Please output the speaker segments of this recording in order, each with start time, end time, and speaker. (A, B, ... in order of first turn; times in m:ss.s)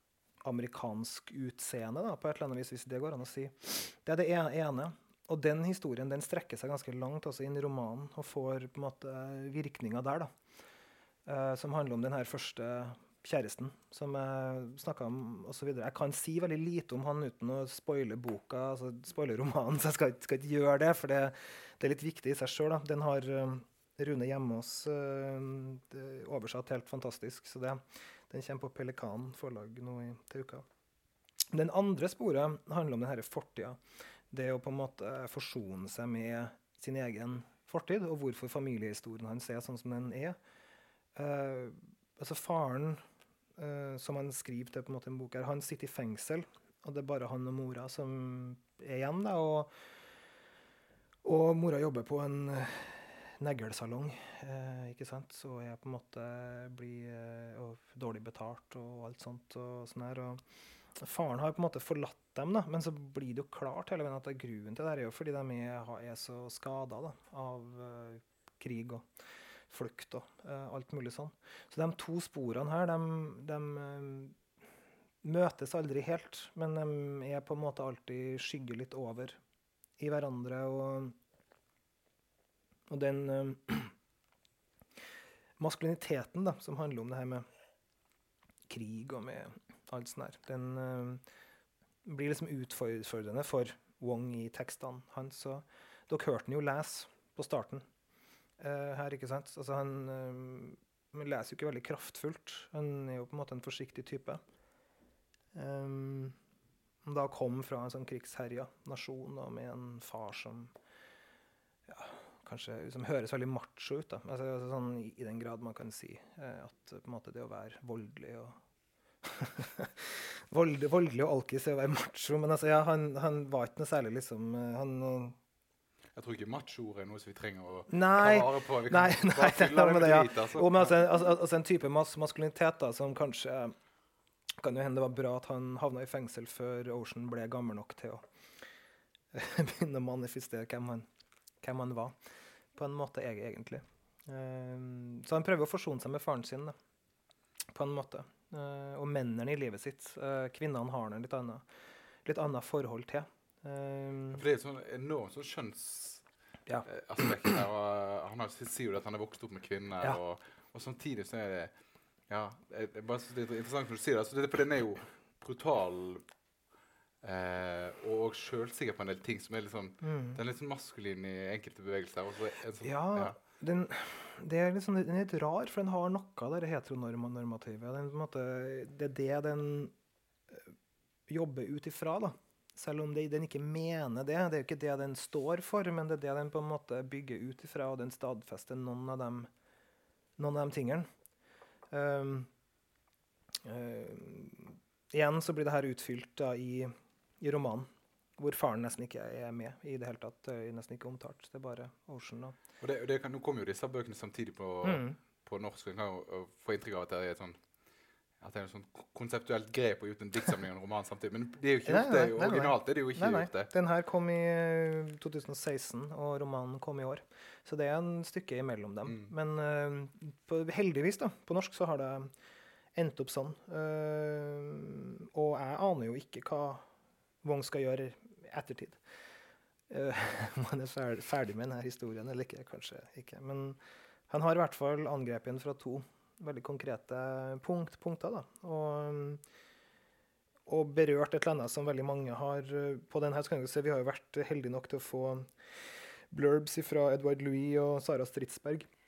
0:00.4-0:10.3 A
0:11.3-0:30.7 A
0:31.5-0:33.8 A
0:34.3-0:40.4 A
0:41.2-0:43.0 A
0:43.6-0:49.7 A
0:51.2-1:00.4 A
1:01.0-1:09.1 A
1:09.7-1:14.4 A
1:15.2-1:19.4 A
1:20.0-1:21.2 A
1:22.9-1:23.9 A
1:25.6-1:27.5 A
1:28.7-1:31.2 A
1:32.0-1:37.8 A
1:38.6-1:44.4 A
1:45.5-1:46.4 A
1:47.0-1:50.7 A
1:51.9-1:58.6 A
1:59.2-2:05.4 A
2:06.2-2:10.9 B
2:07.9-2:13.8 A
2:14.6-2:18.2 A
2:19.3-2:21.1 A
2:21.6-2:22.2 A
2:22.8-2:26.8 A
2:27.7-2:31.7 A
2:32.2-2:34.4 A
2:34.3-2:36.2 B
2:36.7-2:37.3 A
2:36.9-2:41.7 B
2:42.3-2:46.2 B
2:47.2-2:53.4 B
2:50.0-2:50.4 A
2:52.8-2:59.9 A
3:01.3-3:09.5 A
3:10.4-3:11.1 A
3:11.9-3:12.5 A
3:13.6-3:22.6 A
3:22.8-3:27.6 B
3:24.8-3:25.2 A
3:28.4-3:33.7 B
3:31.8-3:42.3 A
3:39.1-3:39.3 B
3:43.0-3:46.9 A
3:47.4-3:49.0 A
3:49.9-3:59.4 A
4:00.7-4:05.5 A
4:06.3-4:08.9 A